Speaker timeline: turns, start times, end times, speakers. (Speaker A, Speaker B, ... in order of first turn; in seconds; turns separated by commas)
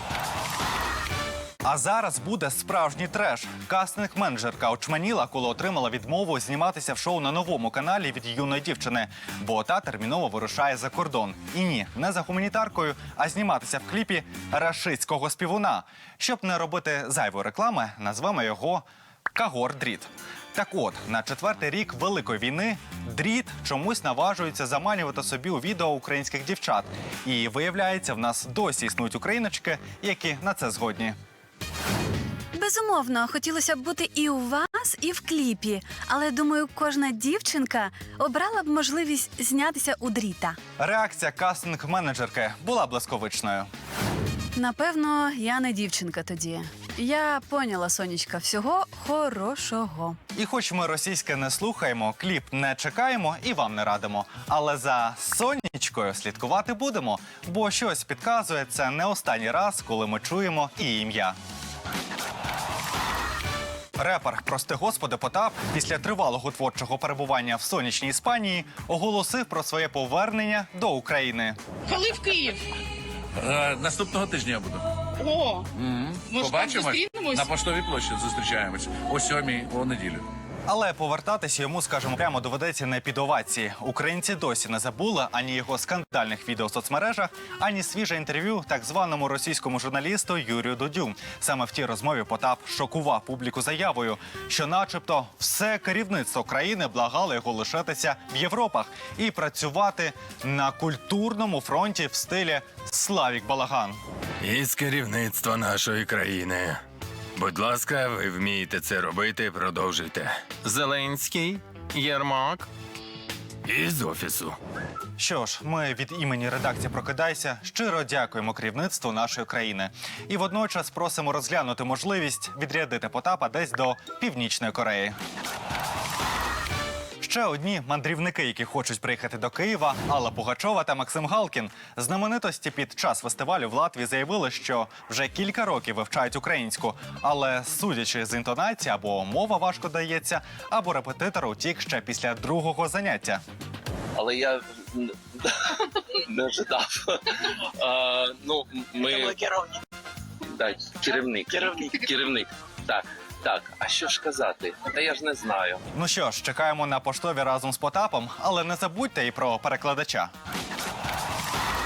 Speaker A: 1.6-31.1, Speaker B: 32.5-40.6, Speaker A: 40.8-43.7, Speaker B: 44.5-50.2, Speaker A: 50.4-61.4, Speaker A: 64.0-71.6, Speaker C: 71.9-72.7, Speaker D: 73.4-74.8, Speaker C: 75.2-75.7, Speaker D: 75.8-80.3, Speaker C: 76.3-77.5, Speaker A: 80.7-104.0, Speaker E: 104.4-106.8, Speaker E: 107.4-112.7, Speaker E: 113.7-114.6, Speaker A: 115.2-125.2, Speaker A: 127.2-143.4, Speaker F: 144.2-145.5, Speaker F: 146.3-147.2, Speaker F: 147.8-149.6, Speaker F: 150.6-155.8, Speaker A: 155.9-160.3